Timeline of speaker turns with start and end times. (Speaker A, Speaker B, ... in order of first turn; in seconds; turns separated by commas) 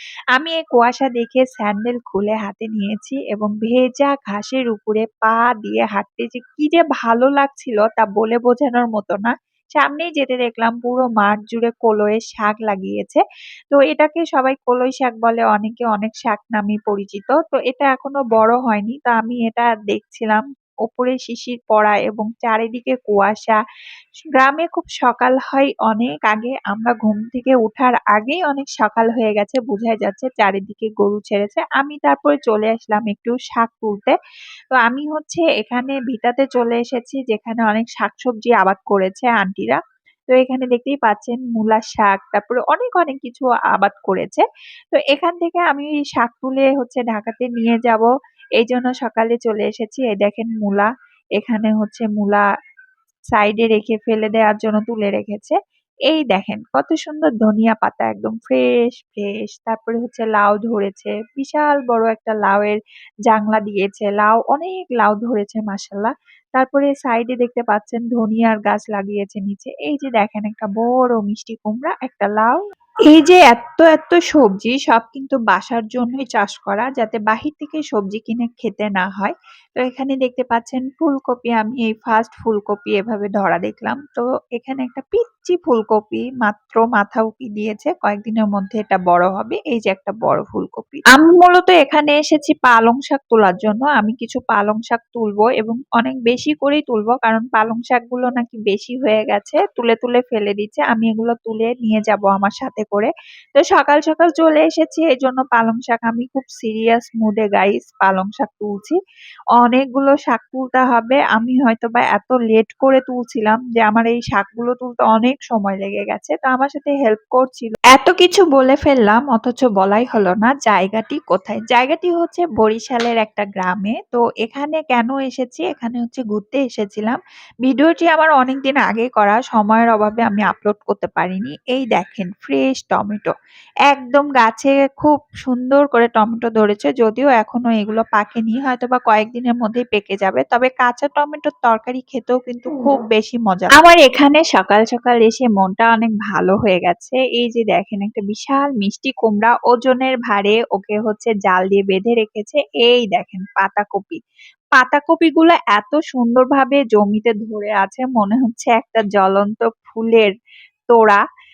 Speaker A: 0.3-23.6, Speaker A: 24.4-34.1, Speaker A: 34.7-39.8, Speaker A: 40.3-48.1, Speaker A: 48.6-52.5, Speaker A: 53.3-55.6, Speaker A: 56.1-72.6, Speaker A: 73.1-109.0, Speaker A: 109.6-133.3, Speaker A: 133.9-154.2, Speaker A: 154.8-160.3, Speaker A: 160.9-161.2